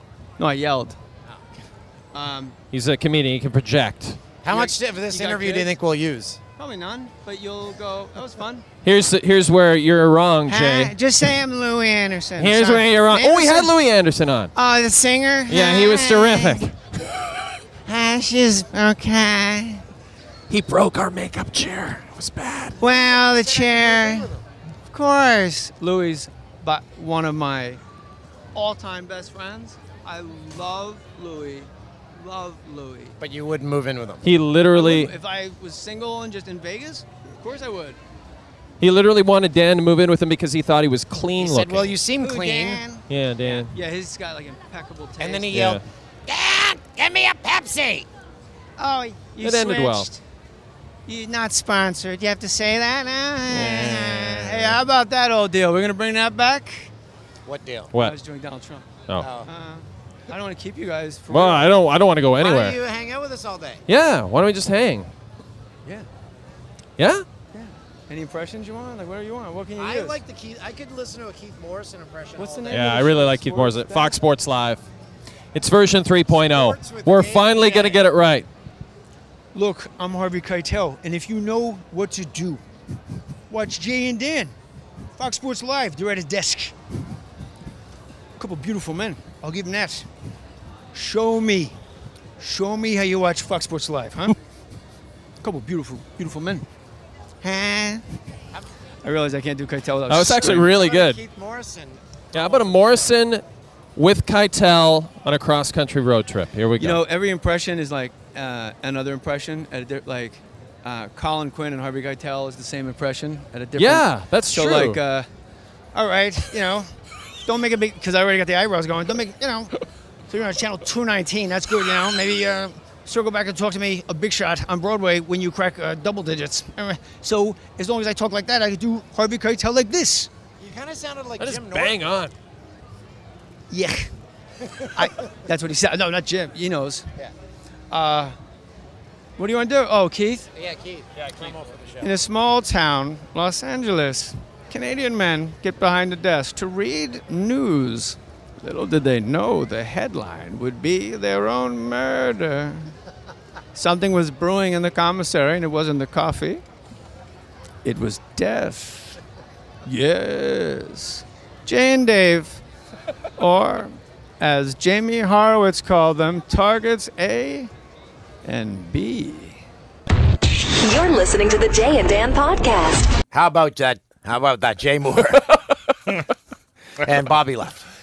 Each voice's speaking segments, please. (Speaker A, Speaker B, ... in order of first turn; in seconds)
Speaker A: 0.4-1.0, 2.1-2.5, 4.5-5.7, 6.6-8.7, 10.5-13.7, 14.5-16.6, 17.9-19.8, 22.8-24.3, 24.9-27.8, 28.5-33.2, 34.7-38.0, 42.2-45.7, 48.8-50.2, 51.0-56.9, 57.9-61.8, 67.5-70.2, 72.4-74.2, 79.5-82.6, 83.5-84.5, 85.2-86.7, 88.4-90.1, 90.9-91.8, 92.4-94.3, 95.4-96.7, 97.4-98.0, 99.0-100.7, 106.8-115.3, 115.9-116.9, 117.4-119.7, 120.3-130.3, 133.7-134.1, 134.9-137.1, 137.9-138.3, 139.4-140.5, 142.0-152.9, 153.7-156.6, 157.8-159.2, 159.8-162.6, 163.4-167.7, 168.4-169.6
Speaker B: 2.7-4.2, 8.8-10.9, 12.4-14.5, 15.5-16.7, 20.5-22.8, 34.2-35.1, 38.8-42.0, 43.1-43.7, 45.5-45.8, 49.4-50.1, 53.5-54.8, 57.9-58.2, 61.3-62.8, 63.9-65.1, 67.0-67.2, 72.7-74.8, 75.5-78.5, 100.1-101.2, 102.3-103.4, 104.0-107.0, 113.8-115.0, 131.4-132.3, 141.2-141.5
Speaker C: 4.4-6.4, 22.8-24.4, 33.2-34.2, 41.4-42.8, 45.2-48.1, 57.5-57.9, 59.2-59.5, 62.4-63.8, 69.8-73.1, 76.3-78.0, 100.4-102.9, 130.6-132.0, 134.8-135.1, 140.5-142.1, 173.3-175.6, 177.0-177.8
Speaker D: 170.8-173.1